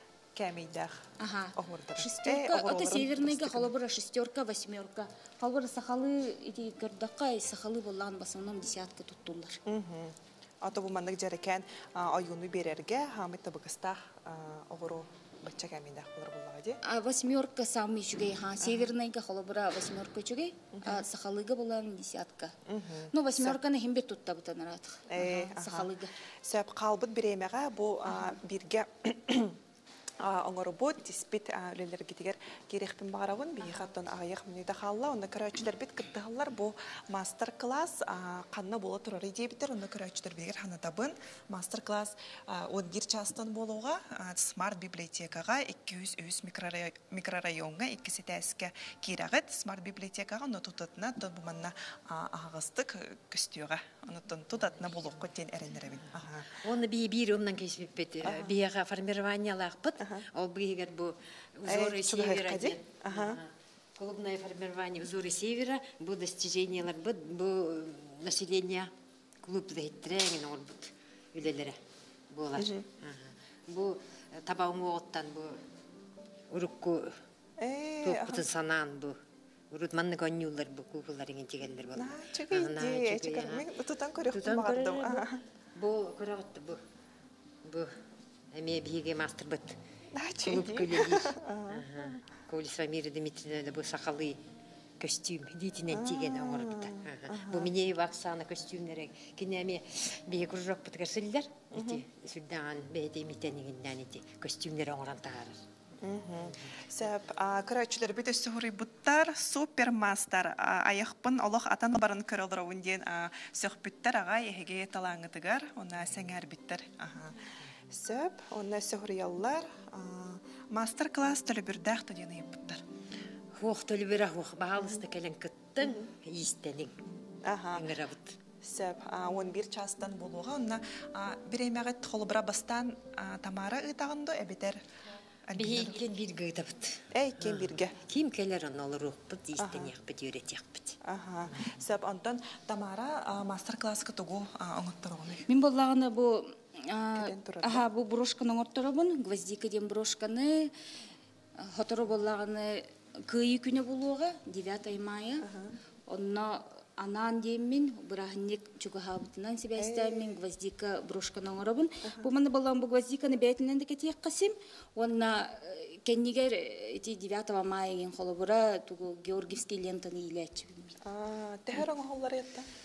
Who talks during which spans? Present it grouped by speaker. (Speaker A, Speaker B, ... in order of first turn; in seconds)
Speaker A: 0.3-1.0, 1.5-3.7, 9.7-16.8, 18.6-18.9, 20.7-21.1, 22.6-23.6, 25.1-29.6, 30.2-56.6, 58.2-58.6, 60.0-60.2, 61.6-63.4, 72.6-72.8, 77.6-78.5, 81.9-85.4, 90.1-91.9, 95.9-97.7, 101.7-102.0, 106.0-122.8, 125.8-126.1, 127.4-127.9, 128.6-134.8, 135.4-136.0, 137.1-138.0, 139.6-139.9, 141.0-145.5, 147.1-147.8, 155.4-155.7, 159.8-160.4, 171.0-172.7
Speaker B: 1.2-9.6, 16.8-22.5, 23.1-26.1, 145.5-150.7, 151.6-155.5, 156.1-171.0
Speaker C: 56.5-71.8, 72.3-75.6, 76.5-77.2, 78.0-79.2, 79.7-83.7, 84.3-86.8, 87.6-88.0, 88.5-89.8, 90.5-94.4, 95.0-105.6, 106.5-106.8, 123.5-126.9, 127.7-128.4, 135.5-141.0